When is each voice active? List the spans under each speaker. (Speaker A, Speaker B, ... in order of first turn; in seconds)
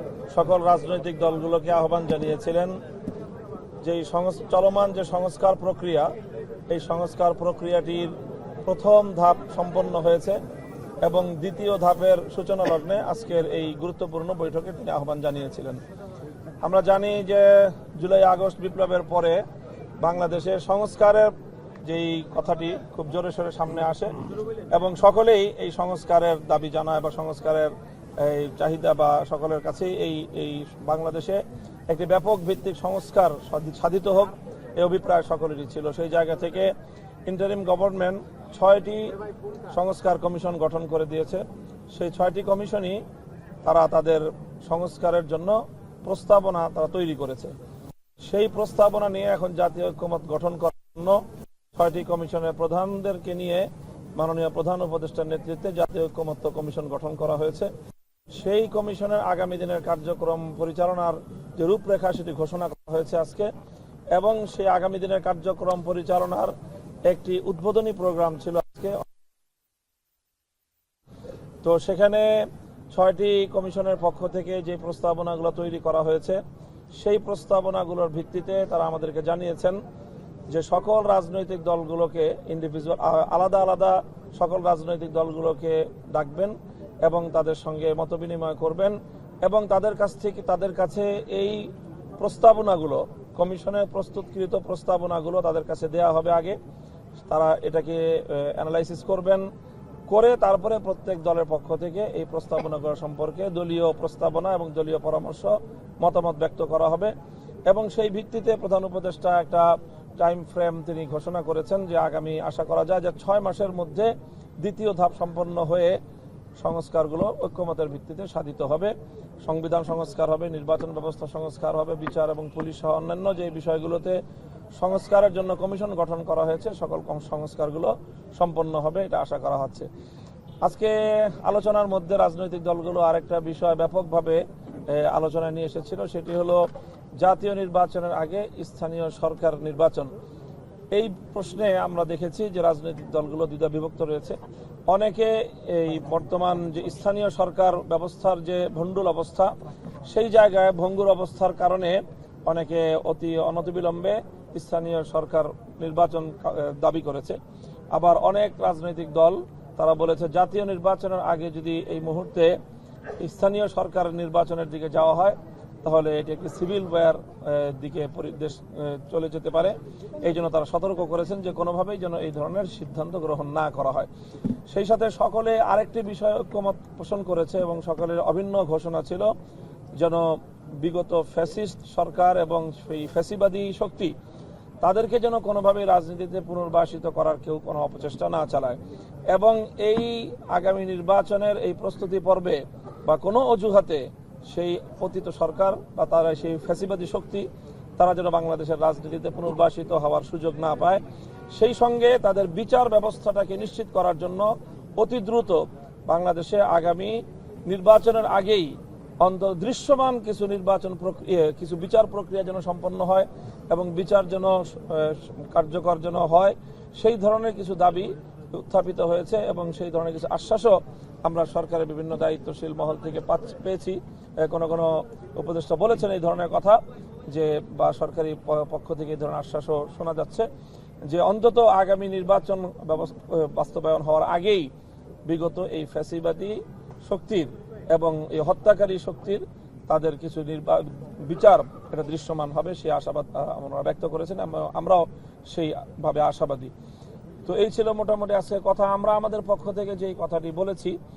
Speaker A: 0.3-2.8, 3.8-6.1, 6.7-8.1, 8.6-10.4, 11.0-15.8, 16.6-19.4, 20.0-21.3, 21.8-36.7, 37.3-39.1, 39.7-43.0, 43.6-47.5, 48.2-51.2, 51.7-57.7, 58.3-63.5, 64.1-66.5, 67.1-69.0, 71.6-76.4, 77.0-79.8, 80.5-96.6, 97.3-99.5, 100.1-107.1, 107.7-116.0, 116.6-124.2, 124.8-129.9, 130.6-136.6, 137.2-140.1, 140.9-157.4, 157.9-162.6, 163.2-174.1, 174.7-179.3, 180.0-184.1, 184.8-188.8, 189.3-197.5, 198.0-230.5, 231.1-234.7, 235.3-246.7, 247.4-250.9